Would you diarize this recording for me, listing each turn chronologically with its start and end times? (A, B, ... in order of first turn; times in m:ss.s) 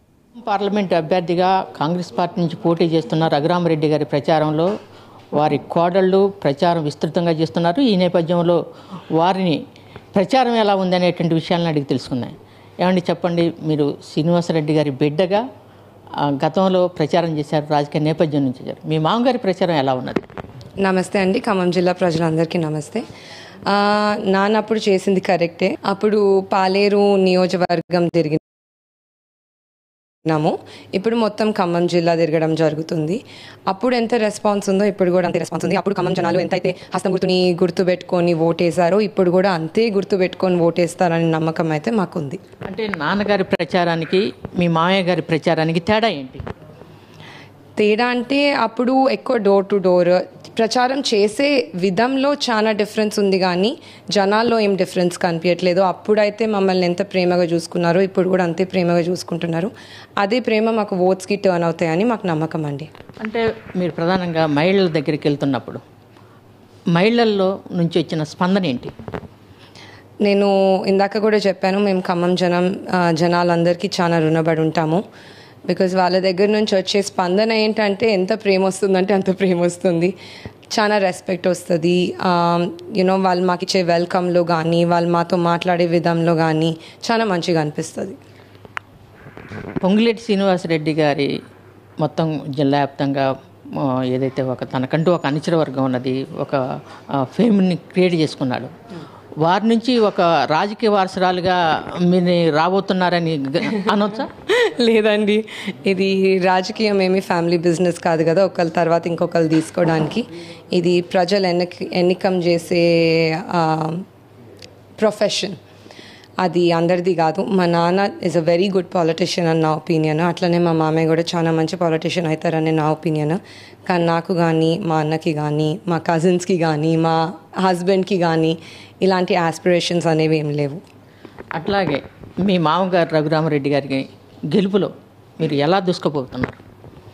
0:00.4-0:04.7 A
0:05.4-0:08.6 A
0:09.2-0:09.6 A
0:10.2-0:15.4 A
0:16.4-0:20.2 A
0:20.8-0:23.0 B
0:23.7-0:28.4 B
0:30.3-0:42.4 B
0:42.7-0:46.4 A
0:47.8-1:02.9 B
1:03.2-1:05.8 A
1:07.0-1:08.9 A
1:10.2-1:15.0 B
1:15.7-1:20.1 B
1:20.7-1:28.2 B
1:29.8-1:31.3 A
1:32.0-1:36.6 A
1:37.2-1:38.7 A
1:39.4-1:41.6 A
1:42.1-1:44.3 A
1:44.5-1:54.0 B
1:55.0-1:55.6 B
1:56.4-2:10.8 B
2:11.6-2:16.6 A